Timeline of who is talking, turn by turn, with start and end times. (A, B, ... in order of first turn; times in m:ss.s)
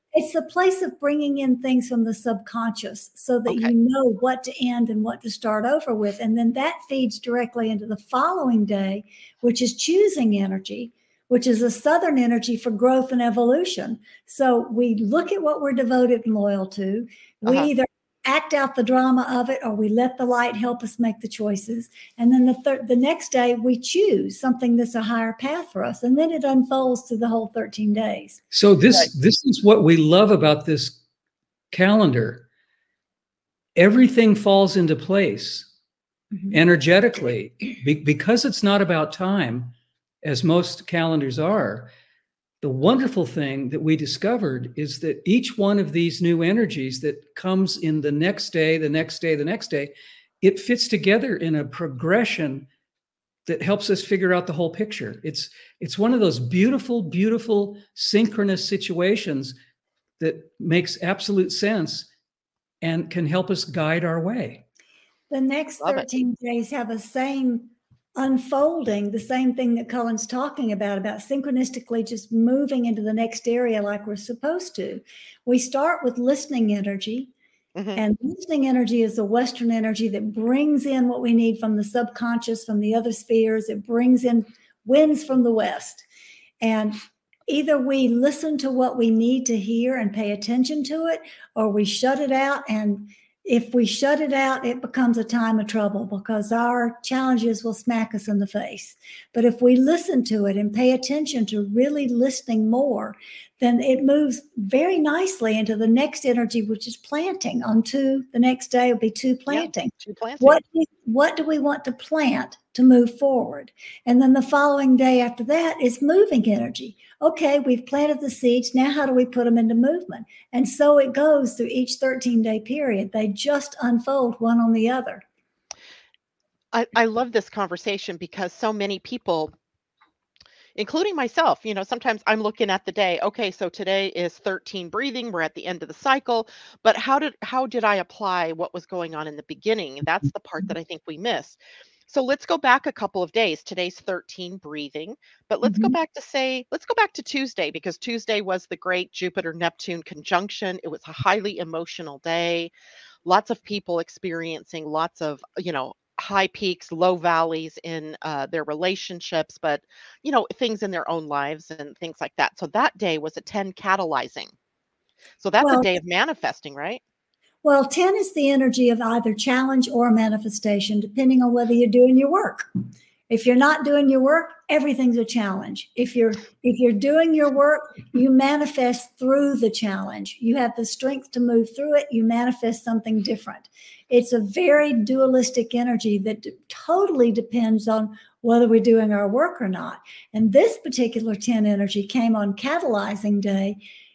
0:00.1-0:28.4 A
0:03.5-0:03.7 B
0:17.4-0:17.7 B
0:28.5-0:31.0 C
0:31.7-0:32.4 C
0:33.8-0:35.7 C
0:36.5-0:41.9 C
0:42.6-0:52.7 C
0:53.4-0:59.5 C
1:00.2-1:02.1 C
1:02.8-1:04.6 C
1:05.3-1:17.3 A
1:05.8-1:06.1 B
1:17.7-1:18.0 B
1:18.0-1:26.0 A
1:26.6-2:05.2 A
1:49.5-1:50.6 B
2:06.7-2:09.5 B
2:10.7-2:32.7 B
2:25.6-2:25.9 A
2:33.2-2:44.5 B
2:45.4-2:47.0 B
2:45.6-2:45.9 A
2:47.6-2:52.7 A
2:53.3-3:13.8 A